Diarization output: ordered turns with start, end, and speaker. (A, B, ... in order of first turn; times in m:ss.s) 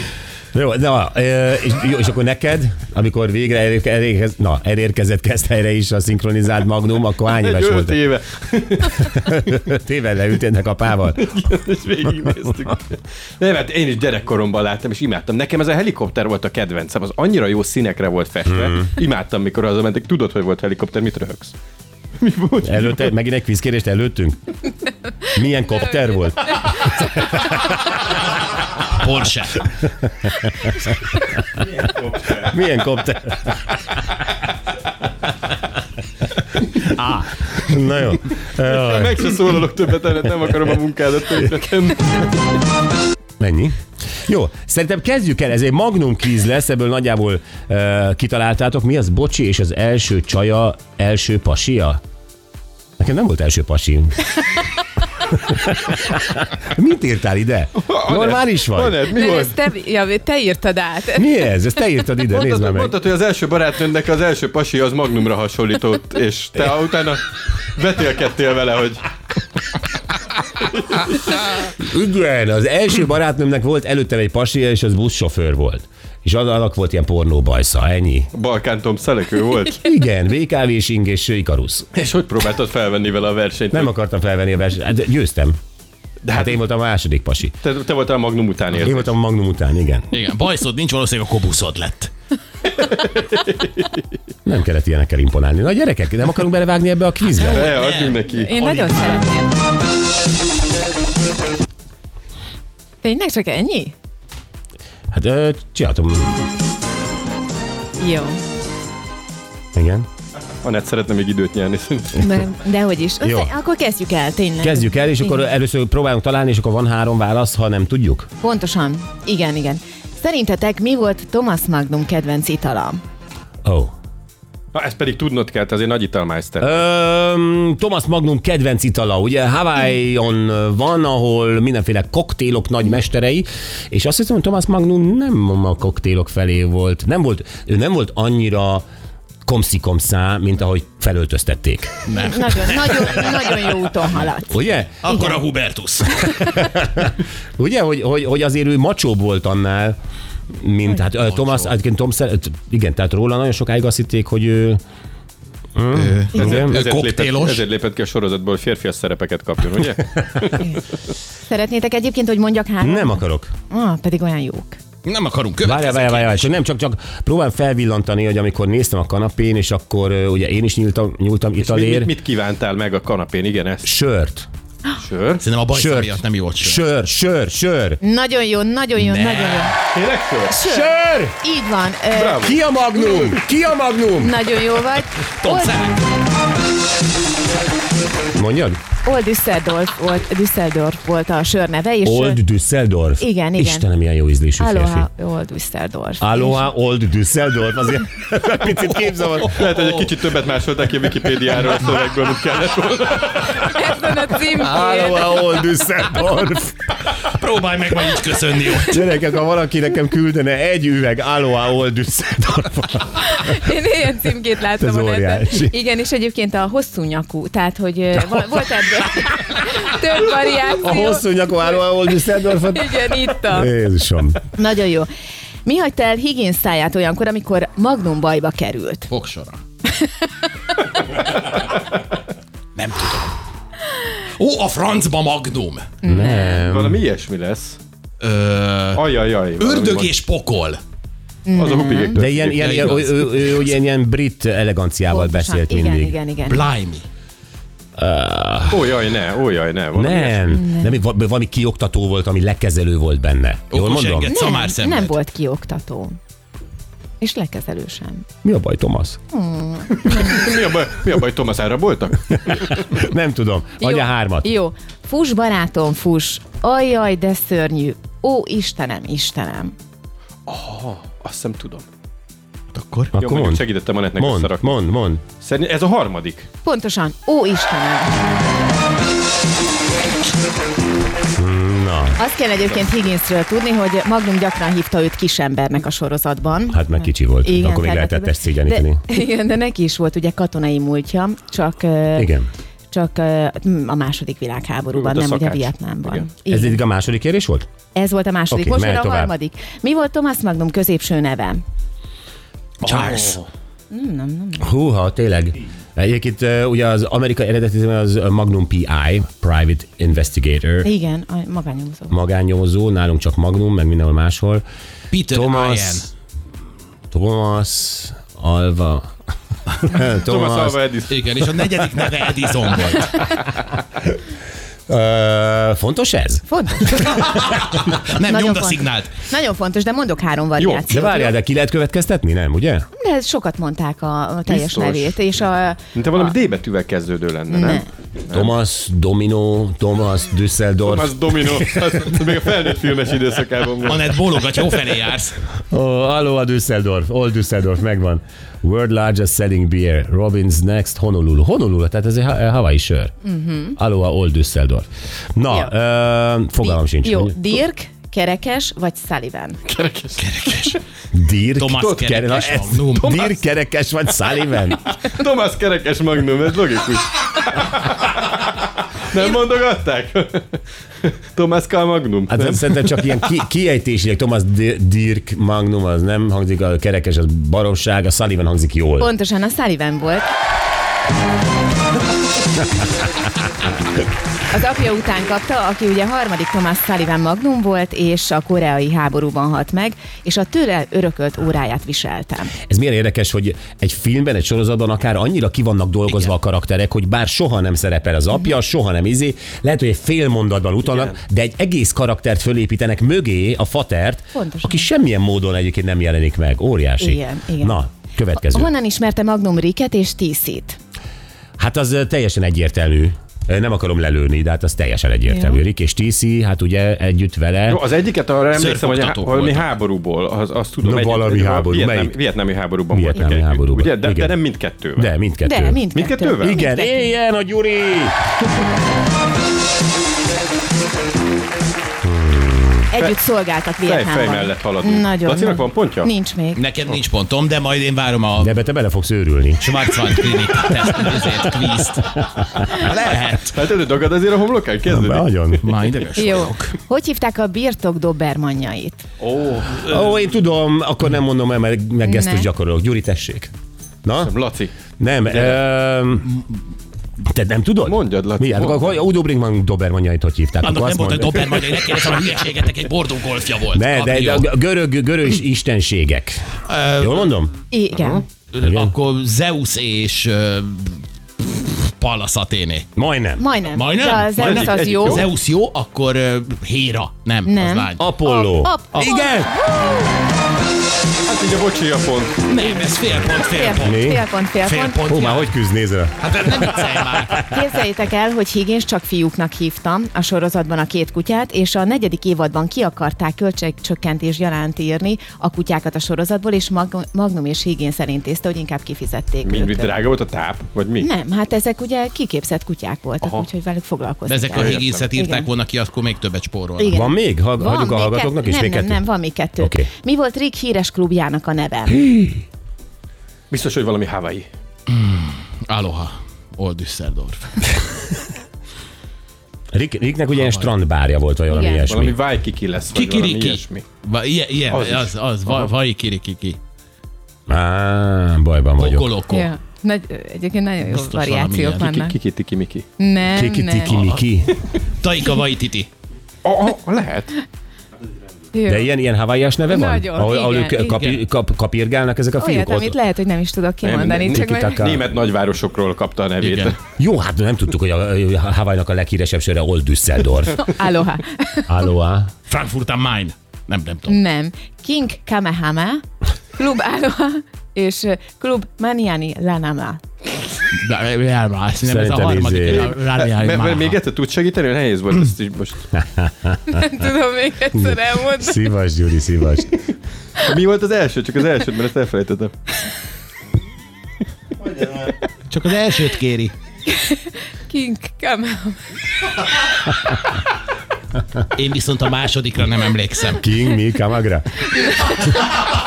0:00.5-0:08.1 A
0:07.3-0:09.3 B
0:09.0-0:11.3 A
0:11.2-0:21.5 B
0:18.4-0:18.9 A
0:22.2-0:23.1 B
0:22.6-0:24.5 A
0:25.3-0:27.1 A
0:28.9-0:29.6 C
0:30.0-0:31.6 A
0:32.3-0:33.9 A
0:36.7-0:39.2 A
0:38.6-0:42.6 B
0:43.4-0:52.0 A
0:53.0-0:54.3 A
0:55.3-0:59.0 A
0:57.8-0:59.5 B
0:59.1-1:01.8 D
1:01.1-1:02.9 A
1:02.3-1:07.2 B
1:07.8-1:09.1 B
1:10.6-1:11.4 B
1:11.8-1:18.3 A
1:18.3-1:19.8 B
1:19.7-1:21.9 A
1:21.9-1:23.9 B
1:23.7-1:25.6 A
1:26.2-1:26.6 B
1:26.3-1:27.5 A
1:27.6-1:29.1 B
1:28.8-1:30.1 A
1:30.1-1:32.1 C
1:32.7-1:34.0 B
1:34.4-1:37.7 A
1:37.4-1:39.2 C
1:37.4-1:38.8 B
1:38.2-1:39.5 D
1:43.0-1:43.9 D
1:45.1-1:46.5 A
1:48.0-1:48.4 D
1:49.7-1:50.1 A
1:50.6-1:52.2 B
1:52.2-1:55.4 D
1:53.2-1:53.5 A
1:54.6-1:58.3 A
1:58.4-2:03.0 D
2:03.6-2:03.9 A
2:04.7-2:06.8 B
2:06.6-2:18.8 A
2:19.4-2:22.0 A
2:22.1-2:23.8 C
2:22.2-2:25.4 D
2:24.5-2:25.3 A
2:25.0-2:26.6 C
2:26.6-2:30.0 A
2:30.5-2:34.8 A
2:31.2-2:31.7 C
2:35.8-2:36.8 A
2:35.9-2:37.6 C
2:36.4-2:40.6 B
2:41.4-2:44.8 D
2:42.8-2:43.5 A
2:45.0-2:46.5 C
2:45.6-2:52.1 A
2:51.6-2:53.9 B
2:53.8-2:54.5 A
2:55.0-2:55.4 B
2:55.4-2:56.8 C
2:55.7-2:58.0 A
2:58.0-2:59.7 D
2:59.0-2:59.7 C
2:59.9-3:00.6 B
3:00.5-3:02.4 D
3:00.6-3:01.4 A
3:02.1-3:02.6 B
3:02.4-3:04.6 A
3:04.2-3:05.8 D
3:05.4-3:06.0 C
3:08.4-3:08.8 A
3:09.0-3:12.4 D
3:12.0-3:15.1 A
3:13.2-3:13.9 D
3:14.6-3:16.6 D
3:16.2-3:19.7 A
3:19.4-3:23.7 B
3:23.5-3:25.4 D
3:24.5-3:26.8 A
3:27.2-3:29.0 C
3:28.8-3:33.6 A
3:33.2-3:43.7 D
3:34.8-3:35.8 A
3:40.5-3:44.4 A
3:44.5-3:45.1 D
3:45.6-3:49.1 D
3:49.1-3:49.6 C
3:52.7-3:53.4 C
3:54.1-3:55.9 C
3:56.0-3:57.0 A
3:56.0-3:56.6 D
3:56.5-3:57.8 B
3:58.2-4:00.8 C
3:58.9-4:00.1 B
4:01.4-4:02.2 D
4:01.6-4:02.8 B
4:02.2-4:06.2 A
4:02.6-4:03.7 C
4:05.1-4:06.6 D
4:06.5-4:07.0 C
4:08.0-4:08.9 A
4:08.7-4:10.6 B
4:09.9-4:14.4 A
4:10.5-4:10.9 D
4:13.7-4:15.2 C
4:14.3-4:16.2 D
4:17.2-4:18.2 D
4:18.4-4:19.2 A
4:19.3-4:20.4 D
4:19.9-4:22.9 B
4:22.8-4:24.5 A
4:23.8-4:29.7 D
4:30.5-4:31.9 B
4:32.7-4:33.1 C
4:33.1-4:35.2 A
4:33.1-4:34.8 B
4:35.4-4:36.5 B
4:36.6-4:38.3 D
4:41.4-4:42.2 A
4:42.2-4:52.4 D
4:46.7-4:49.0 A
4:52.2-4:52.5 A
4:52.9-4:56.8 D
4:54.9-4:56.3 B
4:56.5-4:57.7 A
4:57.9-5:01.6 D
4:58.5-4:59.3 A
5:02.8-5:03.4 C
5:03.9-5:04.7 D
5:04.6-5:10.9 A
5:10.8-5:12.2 D
5:12.1-5:14.6 A
5:15.1-5:16.1 C
5:15.3-5:16.0 A
5:17.1-5:19.1 A
5:19.8-5:20.8 A
5:20.1-5:21.3 B
5:21.1-5:23.4 C
5:24.9-5:26.4 A
5:26.5-5:31.3 D
5:27.3-5:29.1 C
5:30.6-5:30.8 B
5:30.9-5:32.9 A
5:33.0-5:35.8 D
5:34.5-5:35.1 B
5:35.9-5:38.5 B
5:37.5-5:37.8 D
5:38.3-5:41.7 A
5:40.8-5:44.1 B
5:43.8-5:45.4 C
5:45.7-5:53.1 A
5:53.2-5:53.8 D
5:53.8-5:57.4 A
5:55.5-5:55.7 D
5:56.6-5:59.6 D
5:59.6-6:00.8 B
6:00.2-6:00.8 C
6:01.1-6:04.9 A
6:01.6-6:03.1 C
6:02.3-6:03.4 B
6:05.0-6:08.5 B
6:09.1-6:12.9 B
6:12.3-6:19.1 A
6:19.0-6:20.3 D
6:24.5-6:32.5 D
6:32.6-6:48.7 A
6:36.1-6:36.3 C
6:44.3-6:44.9 D
6:47.0-6:47.8 D
6:48.3-6:50.8 D
6:51.6-6:57.8 A
6:55.3-6:55.6 D
6:57.7-7:05.1 B
6:58.5-6:59.7 C
7:00.8-7:02.2 A
7:02.9-7:04.4 A
7:04.9-7:05.8 A
7:05.4-7:07.1 D
7:05.9-7:06.6 B
7:06.4-7:08.2 A
7:12.0-7:12.9 A
7:12.9-7:16.6 D
7:13.8-7:16.1 B
7:16.5-7:18.5 C
7:18.4-7:20.3 A
7:19.6-7:23.6 C
7:22.2-7:22.6 A
7:23.5-7:25.3 B
7:24.9-7:25.7 A
7:25.6-7:26.7 C
7:26.2-7:29.0 D
7:29.2-7:30.2 B
7:29.8-7:33.5 A
7:32.0-7:32.5 D
7:34.0-7:34.3 A
7:34.2-7:34.7 B
7:35.0-7:36.4 A
7:35.3-7:35.6 B
7:37.2-7:41.6 A
7:37.8-7:38.9 B
7:40.6-7:44.5 C
7:43.7-7:46.4 A
7:46.7-7:47.3 C
7:47.0-7:47.5 A
7:47.7-7:48.2 D
7:48.0-7:48.2 B
7:48.5-7:51.0 C
7:48.6-7:48.9 A
7:51.6-7:52.9 C
7:52.9-7:53.5 A
7:53.4-7:55.3 D
7:53.7-7:58.0 C
7:54.3-7:55.3 B
7:57.4-8:00.2 D
7:58.0-7:59.5 A
8:01.2-8:02.4 B
8:02.5-8:04.1 C
8:02.5-8:05.0 D
8:03.8-8:04.2 A
8:04.6-8:05.5 C
8:05.0-8:06.8 A
8:06.2-8:07.4 C
8:07.4-8:20.0 D
8:19.4-8:21.1 B
8:21.0-8:25.5 D
8:23.2-8:23.4 B
8:24.3-8:26.9 C
8:24.5-8:25.1 B
8:26.8-8:32.0 D
8:26.9-8:29.1 A
8:29.6-8:29.9 A
8:31.9-8:32.4 A
8:33.5-8:34.5 B
8:34.9-8:37.8 C
8:39.7-8:42.2 A
8:40.3-8:40.7 C
8:41.5-8:41.9 D
8:41.9-8:43.8 B
8:42.9-8:46.6 C
8:44.7-8:45.7 B
8:47.5-8:49.1 A
8:48.8-8:49.5 C
8:49.3-8:52.1 D
8:50.8-8:52.1 C
8:52.0-8:52.8 B
8:53.0-8:54.1 D
8:53.3-8:54.5 A
8:53.9-8:54.2 C
8:55.0-8:55.9 C
8:56.4-8:57.4 B
8:58.5-8:58.9 D
8:58.6-9:03.0 A
8:59.7-9:01.2 D
9:02.4-9:04.9 D
9:03.8-9:06.8 B
9:04.3-9:05.1 A
9:06.4-9:06.7 C
9:07.0-9:10.7 A
9:10.6-9:11.8 D
9:11.7-9:12.3 A
9:12.5-9:14.2 C
9:14.0-9:20.0 D
9:20.7-9:24.0 C
9:21.8-9:22.9 A
9:22.7-9:25.9 B
9:25.9-9:26.7 A
9:26.7-9:28.7 D
9:27.7-9:29.8 A
9:30.4-9:32.5 B
9:35.5-9:36.5 C
9:36.9-9:39.3 D
9:41.5-9:43.4 C
9:43.4-9:44.8 A
9:44.8-9:45.4 D